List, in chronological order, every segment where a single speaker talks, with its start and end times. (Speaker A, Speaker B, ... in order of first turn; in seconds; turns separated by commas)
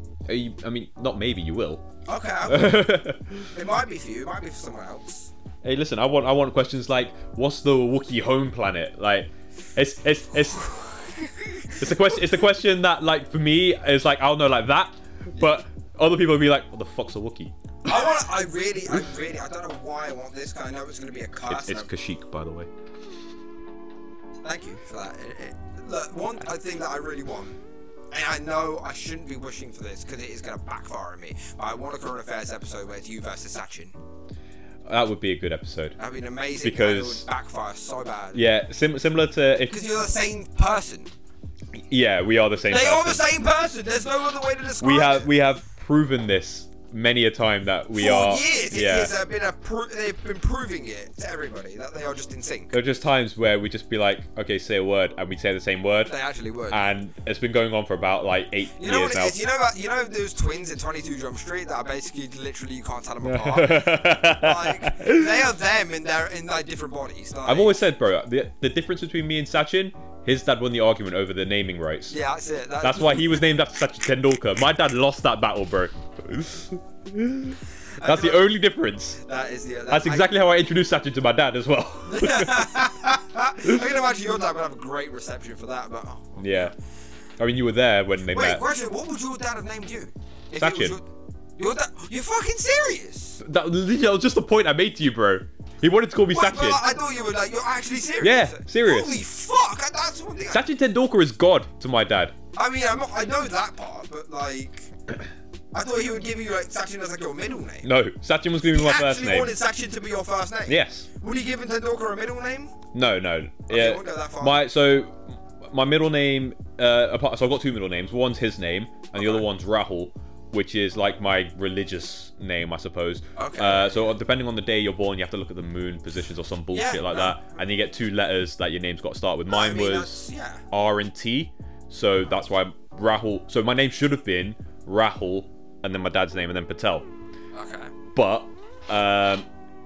Speaker A: 0.2-1.8, Speaker B: 2.0-5.3, Speaker A: 2.5-3.5, Speaker A: 5.6-10.8, Speaker B: 11.2-12.1, Speaker A: 11.8-17.5, Speaker B: 17.8-21.9, Speaker A: 21.5-22.7, Speaker B: 24.4-27.6, Speaker B: 28.1-34.0, Speaker A: 34.8-36.0, Speaker B: 36.0-38.5, Speaker A: 36.6-37.3, Speaker A: 38.3-39.8, Speaker B: 39.7-41.1, Speaker A: 41.7-43.2, Speaker B: 42.7-45.3, Speaker A: 44.8-49.1, Speaker B: 47.9-52.7, Speaker A: 52.7-56.1, Speaker B: 56.1-56.9, Speaker A: 56.7-59.4, Speaker B: 58.8-67.8, Speaker A: 63.2-65.3, Speaker A: 67.4-72.2, Speaker B: 72.1-73.4, Speaker A: 72.8-79.2, Speaker B: 78.0-78.5, Speaker B: 79.2-80.4, Speaker A: 79.9-82.9, Speaker B: 82.1-86.7, Speaker A: 86.4-86.7, Speaker A: 87.4-88.6, Speaker B: 88.3-91.0, Speaker A: 90.5-91.0, Speaker B: 91.6-93.4, Speaker A: 93.4-96.8, Speaker B: 96.3-100.7, Speaker A: 98.2-99.2, Speaker A: 100.5-102.3, Speaker B: 102.5-104.9, Speaker B: 105.7-107.9, Speaker A: 107.8-109.6, Speaker B: 108.6-112.7, Speaker A: 110.7-111.1, Speaker A: 112.9-137.1, Speaker B: 113.7-114.7, Speaker B: 119.1-119.5, Speaker B: 123.3-124.0, Speaker B: 126.7-127.6, Speaker B: 129.5-130.6, Speaker B: 137.5-137.9, Speaker A: 138.1-139.4